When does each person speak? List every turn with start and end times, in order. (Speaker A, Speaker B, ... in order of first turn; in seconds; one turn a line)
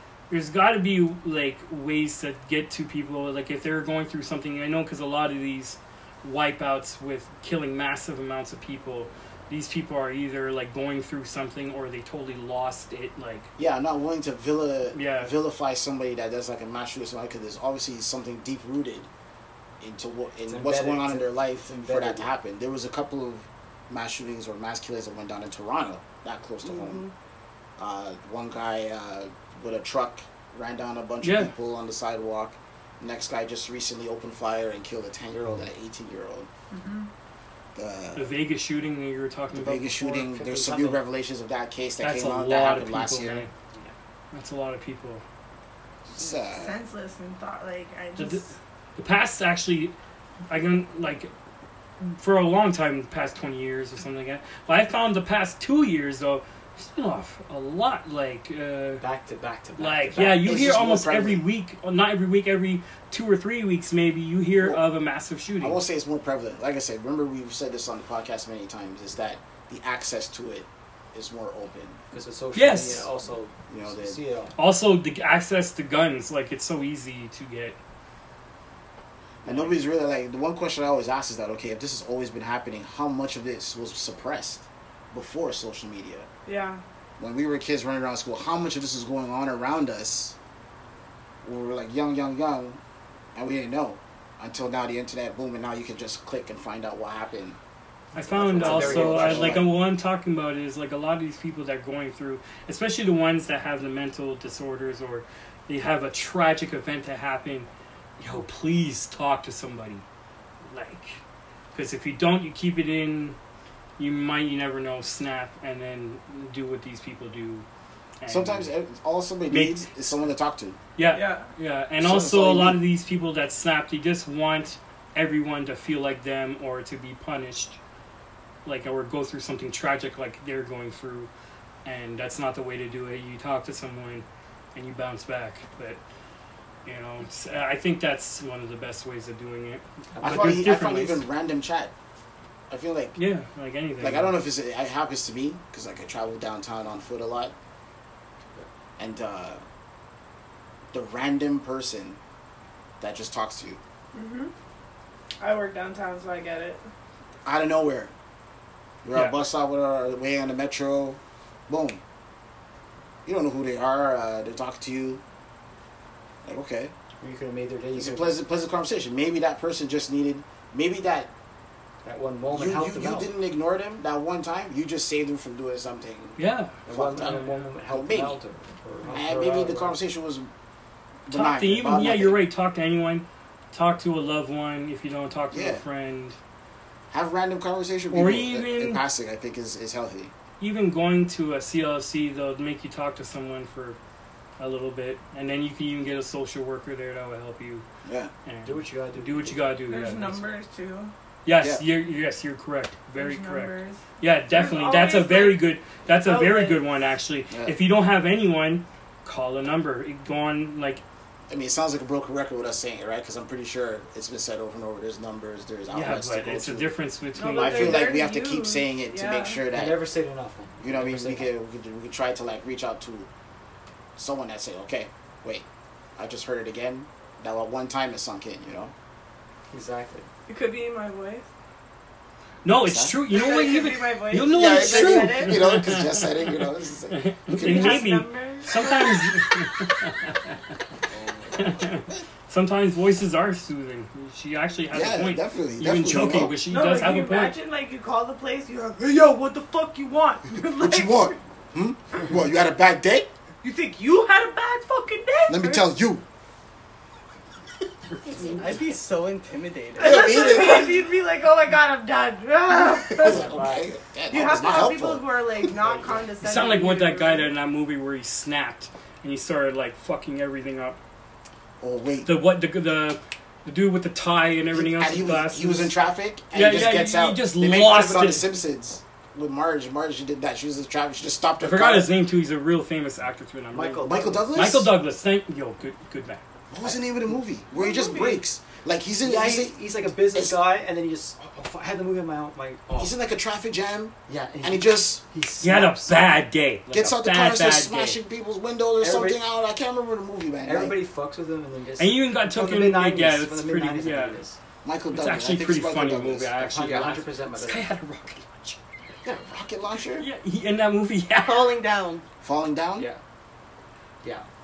Speaker A: 0.3-13.5
Speaker B: 13.6-19.1
Speaker A: 14.9-15.3
Speaker B: 19.8-27.0
Speaker C: 20.5-22.3
Speaker D: 26.6-27.1
Speaker B: 27.8-36.5
Speaker A: 31.2-31.5
Speaker E: 36.7-37.1
Speaker B: 37.8-38.4
Speaker A: 38.2-40.3
Speaker B: 39.5-43.5
Speaker C: 40.2-41.0
Speaker A: 42.0-43.5
Speaker A: 44.3-45.2
Speaker B: 46.1-46.8
Speaker E: 46.4-48.5
Speaker A: 48.2-48.5
Speaker A: 49.0-50.0
Speaker A: 50.5-51.3
Speaker A: 52.0-59.0
Speaker C: 59.0-60.7
Speaker A: 59.8-65.8
Speaker B: 60.4-61.5
Speaker B: 64.6-64.8
Speaker B: 65.6-72.0
Speaker C: 72.1-74.6
Speaker A: 72.5-73.1
Speaker B: 73.7-74.2
Speaker A: 74.6-77.8
Speaker B: 79.4-86.3
Speaker C: 79.5-79.7
Speaker E: 86.5-86.8
Speaker B: 87.2-90.3
Speaker B: 91.4-92.8
Speaker B: 93.3-97.6
Speaker A: 98.2-110.0
Speaker B: 98.3-99.7
Speaker C: 98.3-99.7
Speaker A: 110.7-111.2
Speaker A: 111.7-113.4
Speaker A: 114.0-117.7
Speaker A: 118.2-118.7
Speaker B: 118.3-120.8
Speaker A: 119.5-120.2
Speaker A: 121.0-127.8
Speaker E: 121.1-121.5
Speaker B: 122.0-122.8
Speaker A: 128.7-131.3
Speaker A: 131.8-136.0
Speaker A: 136.8-141.2
Speaker C: 140.2-140.7
Speaker B: 140.2-141.9
Speaker B: 142.7-143.2
Speaker A: 143.2-144.4
Speaker B: 144.0-147.5
Speaker B: 149.0-149.6
Speaker B: 150.9-152.2
Speaker B: 153.0-153.8
Speaker E: 154.1-154.5
Speaker E: 155.4-156.8
Speaker B: 157.4-158.1
Speaker B: 159.0-162.0
Speaker A: 159.1-159.5
Speaker B: 163.2-165.2
Speaker B: 166.4-166.9
Speaker C: 167.2-168.4
Speaker B: 167.9-171.3
Speaker C: 172.0-173.3
Speaker B: 172.5-178.4
Speaker A: 176.4-177.7
Speaker C: 176.9-180.0
Speaker B: 179.1-180.5
Speaker B: 181.3-182.4
Speaker A: 181.3-186.4
Speaker B: 185.5-185.8
Speaker B: 187.1-190.3
Speaker A: 188.1-189.0
Speaker A: 190.6-194.0
Speaker A: 194.6-197.8
Speaker B: 198.1-198.3
Speaker A: 198.5-200.4
Speaker C: 198.7-199.9
Speaker E: 199.9-201.1
Speaker A: 201.4-211.0
Speaker B: 201.6-201.8
Speaker E: 203.2-206.8
Speaker B: 207.5-207.8
Speaker B: 211.5-216.9
Speaker A: 215.9-218.2
Speaker E: 217.4-219.6
Speaker B: 217.5-220.0
Speaker C: 219.7-221.5
Speaker B: 220.8-223.3
Speaker B: 224.2-225.7
Speaker B: 226.2-228.9
Speaker C: 229.7-230.3
Speaker E: 230.5-231.5
Speaker A: 232.7-240.6
Speaker B: 232.8-233.2
Speaker E: 233.3-235.6
Speaker B: 234.5-238.1
Speaker E: 237.6-239.3
Speaker B: 241.1-242.2
Speaker A: 241.6-247.5
Speaker B: 244.9-246.6
Speaker E: 246.7-251.4
Speaker B: 250.8-253.3
Speaker E: 253.6-255.9
Speaker B: 255.5-256.2
Speaker A: 258.1-258.6
Speaker D: 258.4-260.6
Speaker E: 260.0-263.5
Speaker B: 260.0-261.0
Speaker B: 263.1-265.2
Speaker C: 263.2-263.9
Speaker E: 264.3-267.5
Speaker C: 265.8-266.2
Speaker A: 266.4-271.0
Speaker B: 271.8-272.3
Speaker A: 272.2-275.9
Speaker B: 274.7-282.1
Speaker A: 276.5-278.5
Speaker A: 281.6-286.4
Speaker C: 283.7-284.8
Speaker B: 284.0-284.9
Speaker B: 286.7-290.6
Speaker C: 287.8-288.3
Speaker E: 287.8-288.4
Speaker C: 289.2-293.1
Speaker B: 293.0-295.2
Speaker C: 294.3-295.9
Speaker A: 295.6-298.2
Speaker B: 296.9-301.0
Speaker C: 299.0-299.4
Speaker C: 300.6-304.6
Speaker A: 302.0-304.4
Speaker B: 304.8-306.7
Speaker A: 305.1-308.8
Speaker C: 306.6-307.9
Speaker B: 309.2-310.3
Speaker A: 310.2-311.8
Speaker D: 311.4-312.2
Speaker B: 312.4-313.1